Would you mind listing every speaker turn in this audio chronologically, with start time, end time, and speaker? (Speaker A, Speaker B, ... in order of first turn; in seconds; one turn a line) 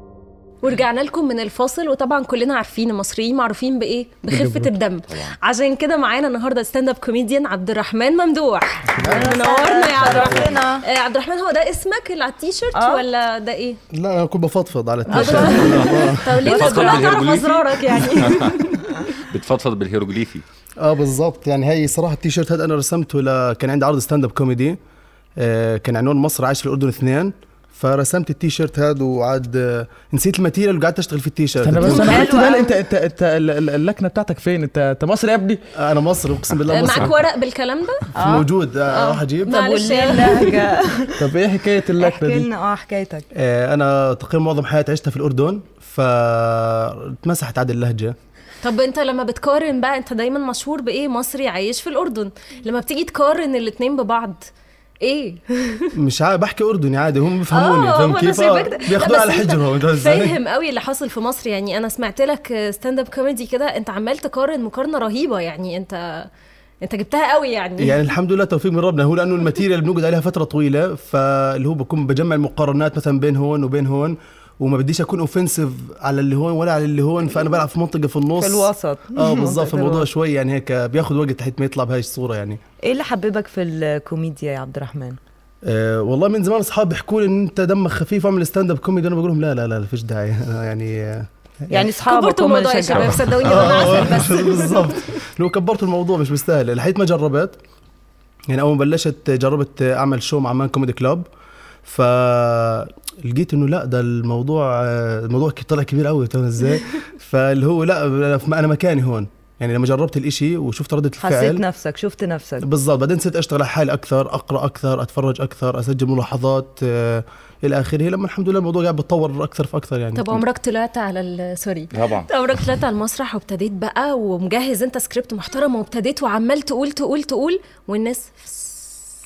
Speaker A: 0.6-13.8
Speaker B: 4.3-5.3
Speaker C: 9.0-10.8
Speaker B: 10.1-10.4
Speaker C: 12.7-13.1
Speaker D: 13.9-16.4
Speaker A: 15.1-19.0
Speaker B: 15.1-18.6
Speaker C: 16.4-17.1
Speaker B: 19.3-20.4
Speaker D: 20.8-24.8
Speaker D: 25.4-32.4
Speaker E: 31.6-35.6
Speaker C: 31.8-32.8
Speaker D: 35.8-37.1
Speaker A: 36.7-38.1
Speaker C: 38.2-38.5
Speaker D: 38.2-39.6
Speaker A: 38.9-40.7
Speaker C: 39.5-41.3
Speaker E: 41.2-42.5
Speaker C: 41.9-43.2
Speaker D: 43.3-48.1
Speaker A: 48.6-54.5
Speaker A: 55.0-55.9
Speaker D: 55.9-60.4
Speaker A: 57.5-66.3
Speaker A: 66.8-68.0
Speaker D: 67.8-82.6
Speaker C: 78.4-80.1
Speaker C: 82.8-85.2
Speaker D: 85.6-91.3
Speaker C: 91.7-93.9
Speaker A: 92.0-95.0
Speaker D: 93.4-97.6
Speaker D: 98.5-101.2
Speaker D: 101.8-111.6
Speaker C: 111.2-112.6
Speaker D: 112.6-120.5
Speaker A: 120.1-128.8
Speaker B: 121.9-122.3